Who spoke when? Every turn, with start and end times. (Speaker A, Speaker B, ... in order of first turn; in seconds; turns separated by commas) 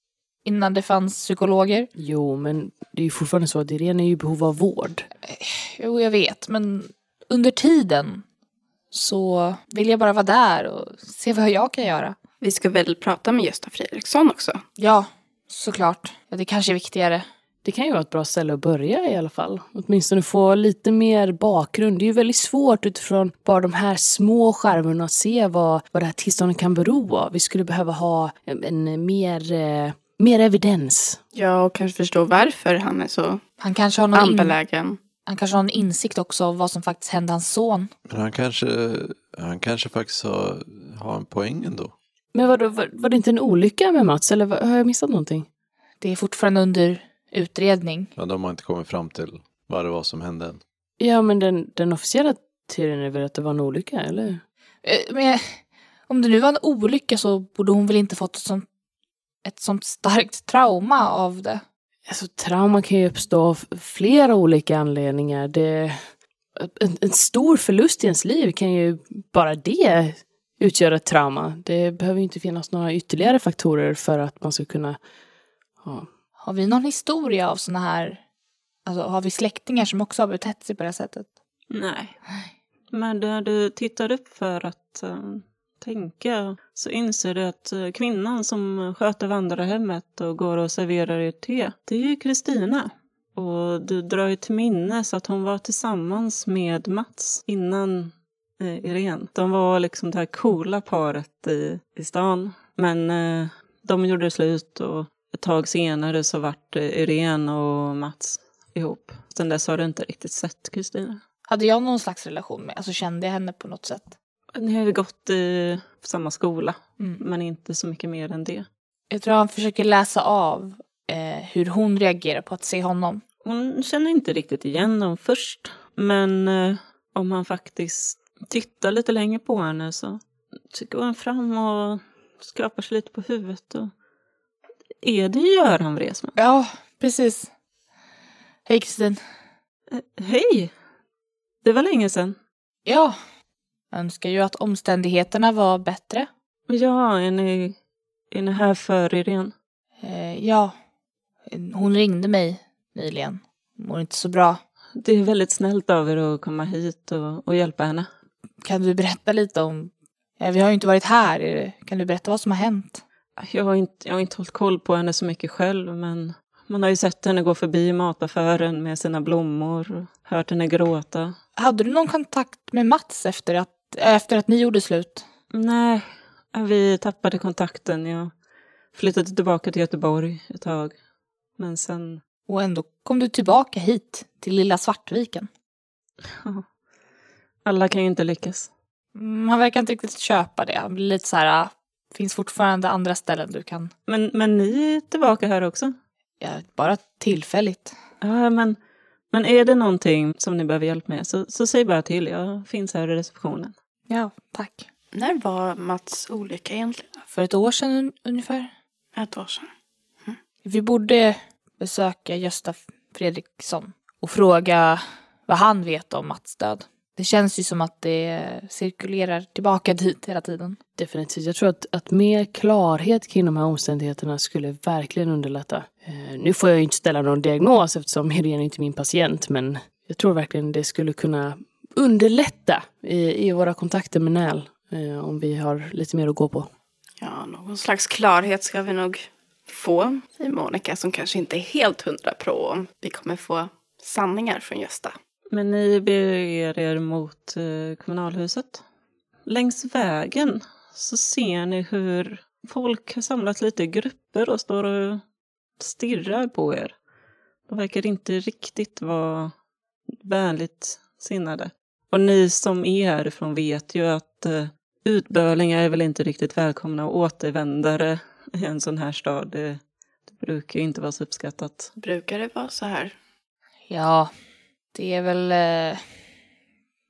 Speaker A: 0.4-1.9, Speaker B: 2.0-5.1, Speaker A: 5.2-8.2, Speaker A: 8.9-12.2, Speaker C: 12.4-14.6, Speaker A: 14.8-17.3, Speaker B: 17.6-31.2, Speaker C: 31.3-33.4, Speaker A: 33.6-34.6, Speaker C: 34.1-35.0, Speaker A: 35.2-37.9, Speaker D: 38.1-41.9, Speaker B: 42.3-45.5, Speaker A: 46.0-48.1, Speaker D: 48.2-50.6, Speaker B: 51.0-54.4, Speaker A: 54.8-58.7, Speaker A: 59.4-61.6, Speaker B: 62.1-75.0, Speaker B: 75.8-76.1, Speaker A: 76.4-78.2, Speaker A: 78.8-81.3, Speaker E: 81.7-82.2, Speaker E: 82.9-111.2, Speaker A: 111.5-114.1, Speaker E: 114.5-118.7, Speaker A: 119.1-123.2, Speaker E: 123.5-130.2, Speaker E: 130.7-133.9, Speaker E: 135.0-136.4, Speaker A: 136.4-137.5, Speaker A: 138.7-139.2, Speaker E: 139.9-140.7, Speaker E: 141.6-142.4, Speaker A: 142.9-143.2, Speaker A: 143.9-146.3, Speaker E: 146.7-147.8, Speaker E: 148.3-149.5, Speaker A: 150.0-150.8, Speaker A: 151.5-154.6, Speaker E: 155.0-158.1, Speaker A: 158.6-163.0, Speaker E: 163.4-171.4, Speaker A: 171.6-175.2, Speaker E: 175.5-178.3, Speaker E: 178.9-180.9, Speaker E: 181.6-182.2, Speaker A: 182.5-185.5, Speaker E: 186.3-186.7, Speaker E: 187.7-188.7, Speaker A: 189.2-193.9, Speaker E: 194.1-195.9, Speaker A: 196.4-197.9, Speaker E: 198.2-198.8, Speaker E: 199.3-203.8, Speaker A: 204.1-204.9, Speaker C: 205.1-207.1, Speaker A: 207.3-208.7, Speaker C: 209.2-209.7, Speaker A: 210.6-220.8, Speaker B: 221.0-236.7, Speaker C: 237.2-245.2, Speaker E: 245.5-248.8, Speaker E: 249.5-255.2, Speaker E: 255.8-257.0, Speaker E: 257.7-259.5, Speaker E: 260.2-271.9, Speaker C: 272.0-273.1, Speaker A: 273.9-274.3, Speaker A: 274.9-276.0